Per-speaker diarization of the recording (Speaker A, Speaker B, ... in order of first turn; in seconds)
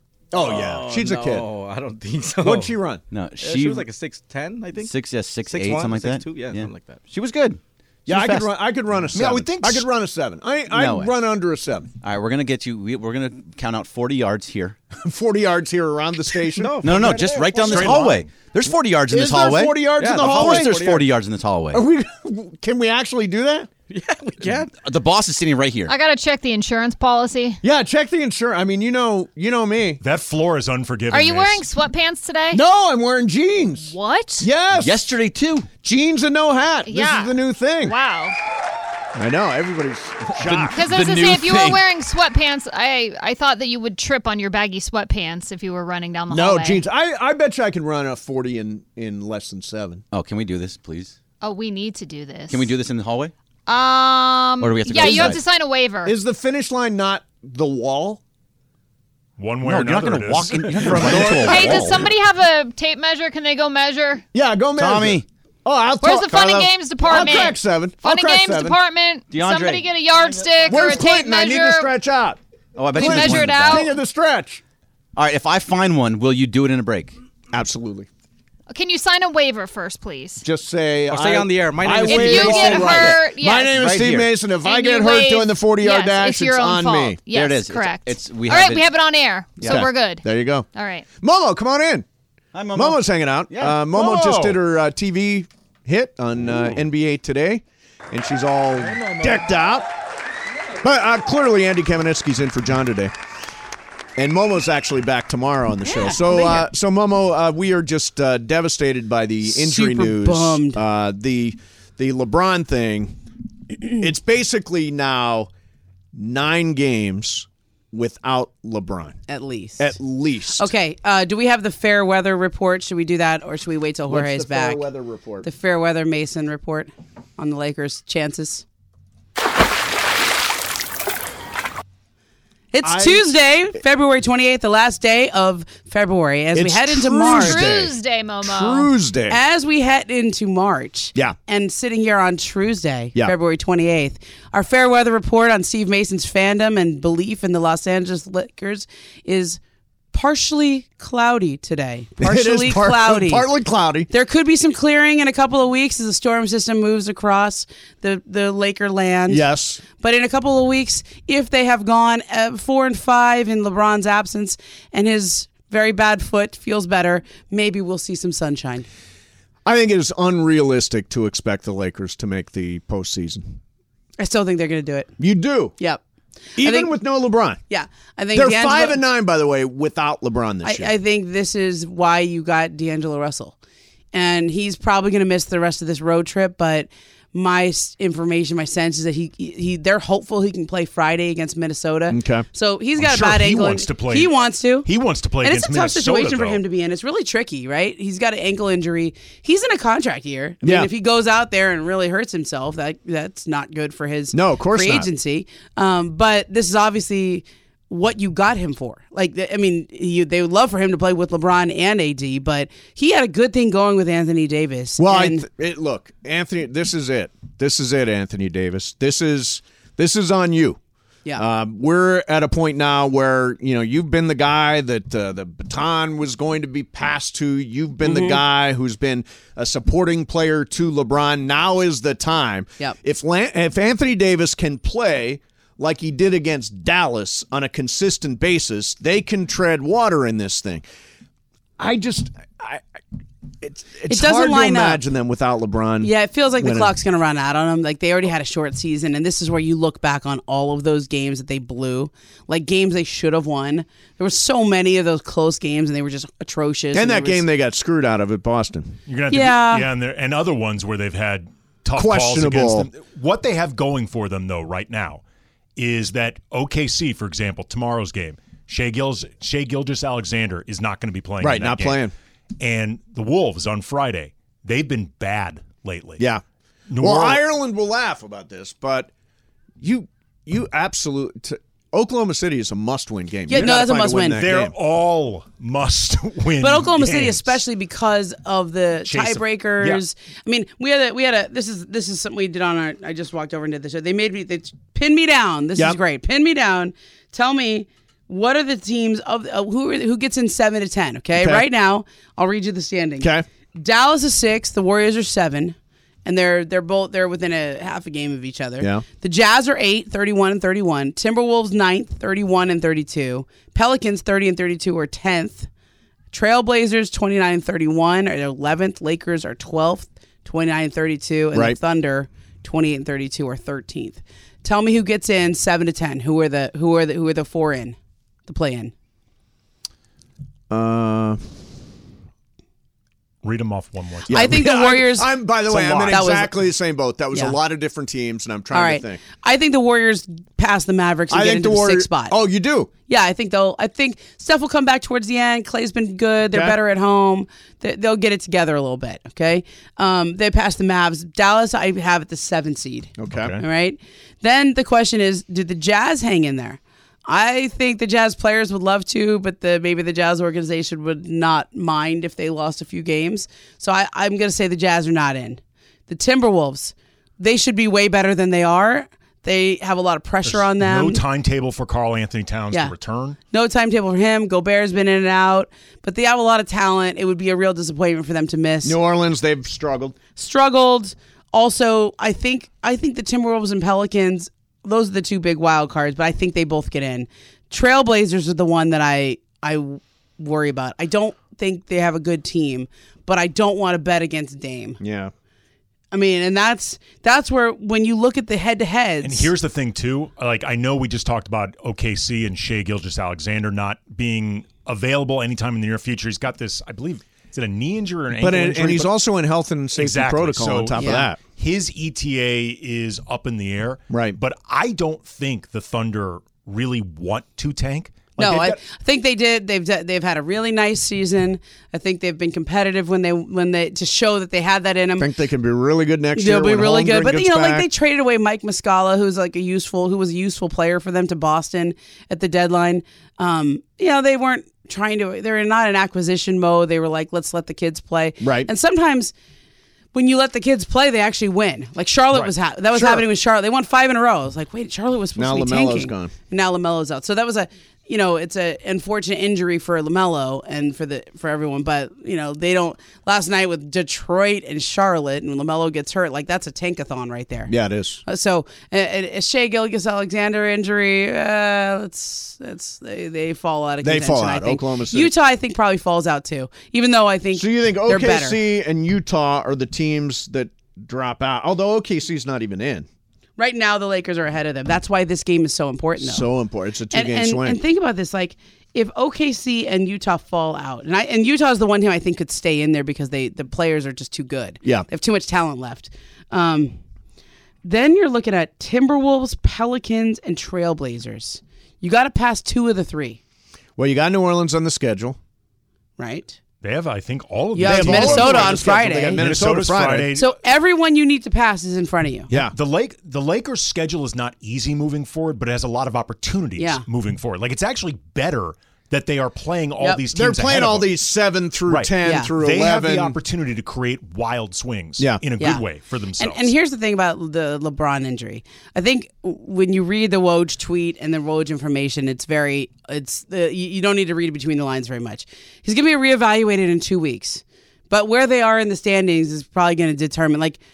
Speaker A: 0.3-1.5, 2.4-3.0, 8.1-11.9, 15.0-18.2, 19.1-21.1, 21.7-23.7, 27.6-30.0, 32.5-35.1, 35.8-38.0, 39.1-41.8, 46.3-50.0, 56.0-58.2, 60.6-62.0, 64.3-68.8, 70.7-72.4, 73.0-74.6, 77.5-78.1, 80.4-87.2, 89.7-90.7, 91.2-92.0, 92.7-99.9, 100.8-103.1, 104.2-113.2, 113.9-115.5, 116.2-119.2, 119.8-120.7, 124.1-125.5, 132.8-133.3, 136.5-139.4, 152.2-154.1, 159.3-159.9, 169.7-173.6, 175.2-175.8, 176.6-177.6, 178.3-180.9, 192.1-192.5, 200.6-200.9, 204.3-205.1, 215.0-220.8, 221.4-240.8, 241.8-242.8, 243.6-246.9, 256.9-259.0, 262.0-262.9, 271.4-272.1, 277.0-279.1, 279.8-284.7, 301.4-301.7, 308.8-309.1, 321.5-321.8, 330.7-331.4, 334.3-339.3, 341.3-342.9, 346.5-346.8, 353.2-353.6, 378.8-380.2, 395.0-395.3, 408.4-411.4, 414.1-414.4, 418.4-418.7, 425.2-427.9, 438.4-438.7, 442.9-443.3, 445.4-446.3, 457.7-458.2, 464.0-465.3, 467.6-473.1, 476.2-477.8, 494.0-495.4, 497.8-500.3, 510.3-513.4, 515.2-515.5
Speaker B: 0.3-2.8, 3.4-7.0, 16.6-17.9, 20.0-21.1, 23.9-24.7, 81.1-83.2
Speaker C: 3.1-3.9, 4.8-8.5, 10.7-11.2, 12.0-14.8, 16.8-21.9, 24.4-25.9, 34.7-35.7, 50.1-51.2, 52.5-53.3, 54.6-55.4, 59.6-62.1, 64.8-65.3, 66.3-67.5, 69.3-70.9, 72.8-73.9, 75.2-77.2, 83.7-84.3, 87.3-88.9, 89.6-89.9, 92.5-94.6
Speaker D: 9.1-9.9, 17.7-18.3, 30.0-31.6, 59.4-61.8, 193.0-196.6, 259.1-265.2, 265.8-272.1, 272.6-276.2, 276.9-277.4, 284.4-287.6, 289.0-290.0, 333.4-334.6, 370.4-373.4, 399.2-409.2, 409.9-418.7, 496.8-500.6, 502.6-511.1, 511.9-516.7
Speaker E: 25.9-27.6, 31.1-32.6, 33.9-34.5, 36.9-38.4, 40.7-46.8, 51.4-52.8, 53.7-56.2, 61.4-64.2, 66.0-71.9, 73.0-73.9, 78.7-80.4, 82.0-84.0, 84.6-91.1, 137.3-138.9
Speaker F: 105.8-106.7, 109.5-110.8, 119.3-119.9, 120.6-124.8, 125.4-128.6, 132.7-137.7, 139.3-149.6, 150.1-153.5, 154.1-168.9, 174.2-175.1, 176.6-177.0, 177.7-179.0, 180.6-183.5, 184.1-194.9, 195.4-215.5, 228.1-228.4, 244.1-245.0, 246.0-257.4, 259.3-259.9, 283.5-284.4, 286.6-315.7, 316.3-328.0, 328.5-328.9, 334.3-336.6, 338.7-342.4, 343.1-371.2, 373.5-379.0, 380.3-395.0, 396.1-399.5, 411.0-411.3, 418.4-425.3, 426.4-439.3, 440.1-457.7, 458.3-468.6, 473.6-476.5, 477.1-487.0, 487.8-493.4, 496.2-496.6, 497.7-499.5, 500.4-502.5, 506.8-507.1, 510.0-510.2, 512.2-512.5, 515.6-515.9, 516.4-530.8